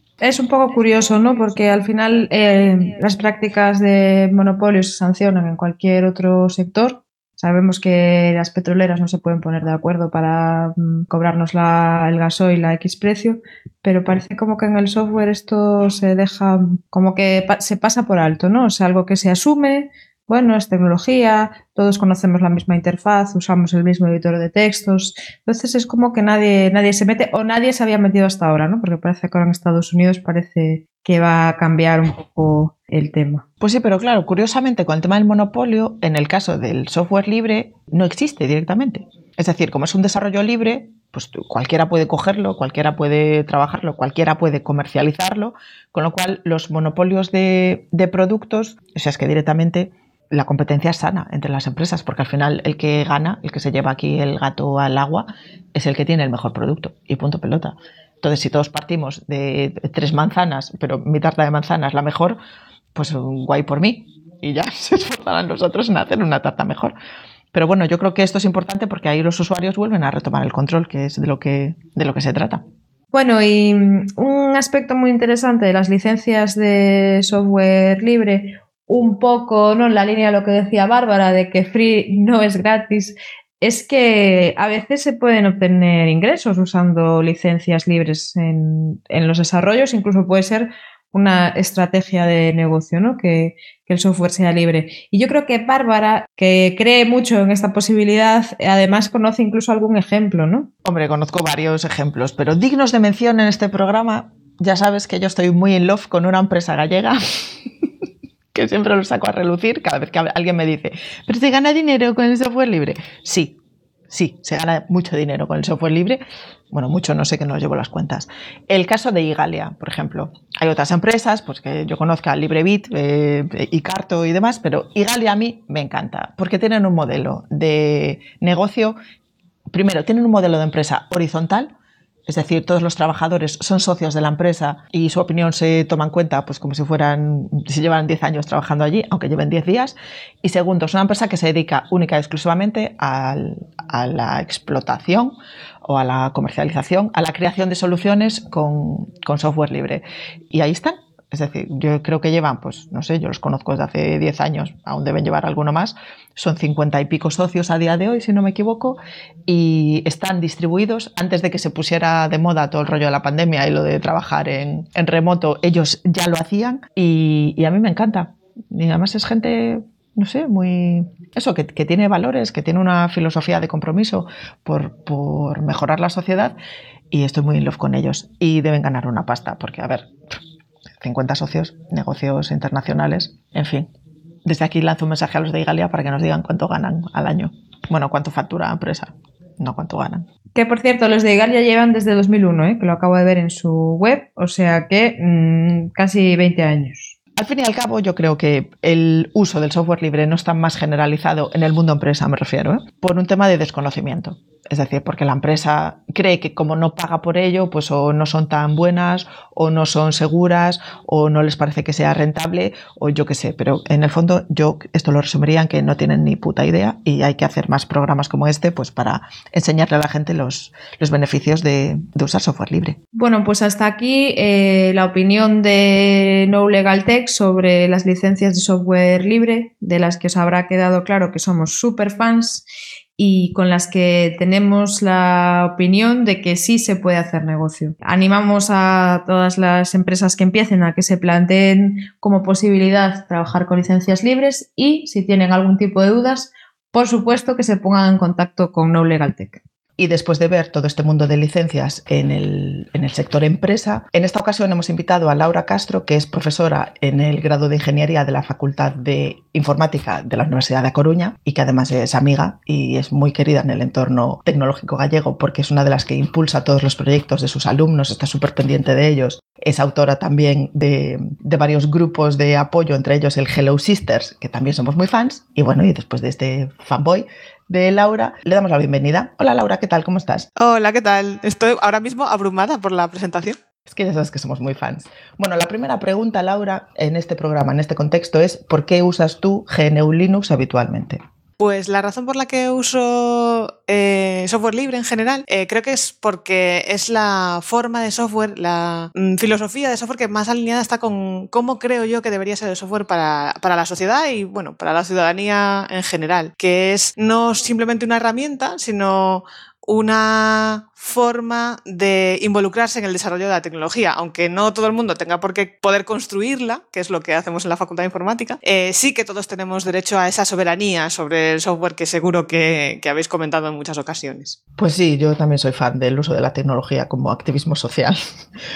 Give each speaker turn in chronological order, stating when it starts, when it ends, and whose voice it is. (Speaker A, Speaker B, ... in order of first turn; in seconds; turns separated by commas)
Speaker A: 0.2-33.4, Speaker B: 33.6-62.4, Speaker B: 62.9-66.9, Speaker B: 67.5-72.6, Speaker A: 73.1-100.7, Speaker B: 100.8-107.7, Speaker B: 108.5-113.6, Speaker B: 114.1-116.2, Speaker B: 116.7-128.9, Speaker B: 129.7-131.7, Speaker B: 132.3-176.5, Speaker B: 177.1-180.1, Speaker B: 181.0-183.9, Speaker B: 184.4-190.2, Speaker A: 190.5-197.1, Speaker B: 197.3-223.0, Speaker A: 223.1-232.7, Speaker A: 233.2-249.6, Speaker B: 250.0-280.5, Speaker C: 280.6-283.6, Speaker B: 283.9-291.2, Speaker C: 291.6-324.6, Speaker B: 324.8-328.2